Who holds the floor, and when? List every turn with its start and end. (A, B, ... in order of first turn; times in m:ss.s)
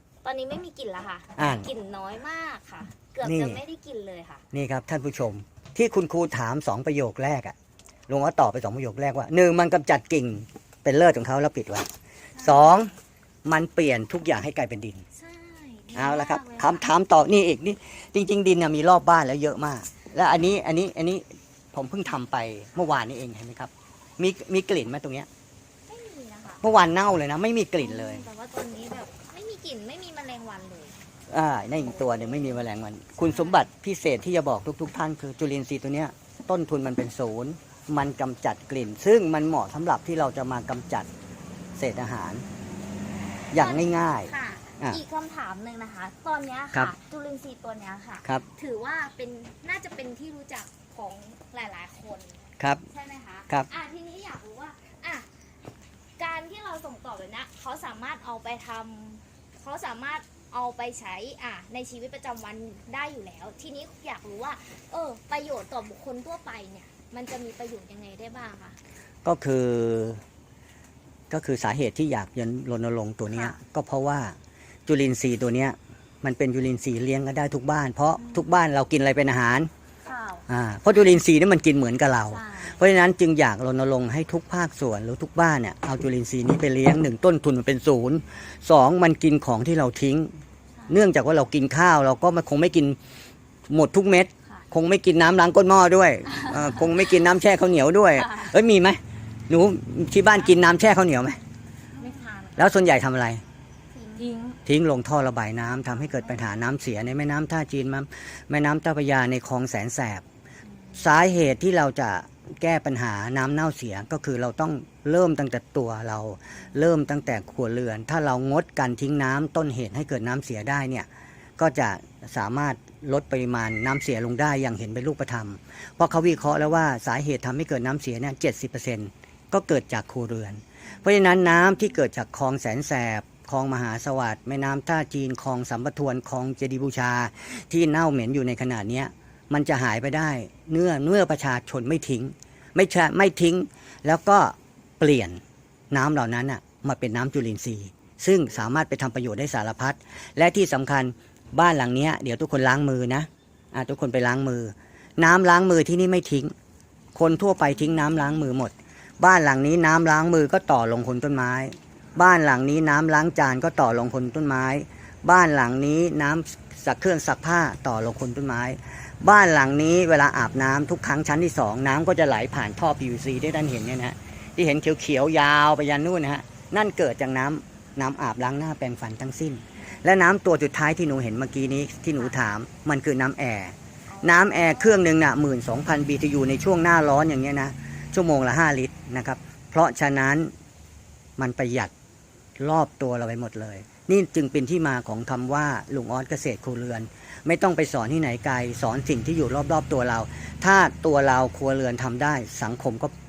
0:00.2-0:04.4 A
0:01.4-0:01.7 B
0:03.2-0:03.6 B
0:04.5-0:07.6 B
0:08.1-0:11.9 B
0:12.3-0:12.8 A
0:12.4-0:12.9 B
0:13.4-0:15.0 B
0:15.1-0:17.0 A
0:16.0-0:25.3 B
0:25.9-0:26.6 A
0:26.6-0:28.2 B
0:27.8-0:31.0 A
0:31.3-0:41.1 B
0:31.9-0:32.4 A
0:33.2-0:33.7 A
0:41.8-0:42.4 B
0:43.5-0:45.0 B
0:43.6-0:55.3 A
0:52.6-0:52.8 B
0:56.2-1:08.8 A
1:09.2-1:10.2 B
1:11.3-1:14.4 B
1:13.3-1:13.6 A
1:14.9-1:19.7 B
1:18.2-1:18.5 A
1:20.0-1:20.4 A
1:20.5-1:30.3 B
1:22.3-1:22.8 A
1:30.8-1:31.0 A
1:30.9-1:33.0 B
1:33.7-1:41.4 B
1:36.3-1:37.0 A
1:38.2-1:38.5 A
1:41.9-1:42.7 A
1:42.6-1:43.4 B
1:43.9-1:44.6 A
1:44.7-1:50.2 B
1:50.6-1:51.1 A
1:51.0-2:01.1 B
2:01.6-2:36.5 B
2:10.9-2:11.2 A
2:37.2-3:10.5 B
2:59.8-3:00.0 A
3:04.1-3:05.0 A
3:11.4-3:11.9 B
3:12.6-3:23.1 B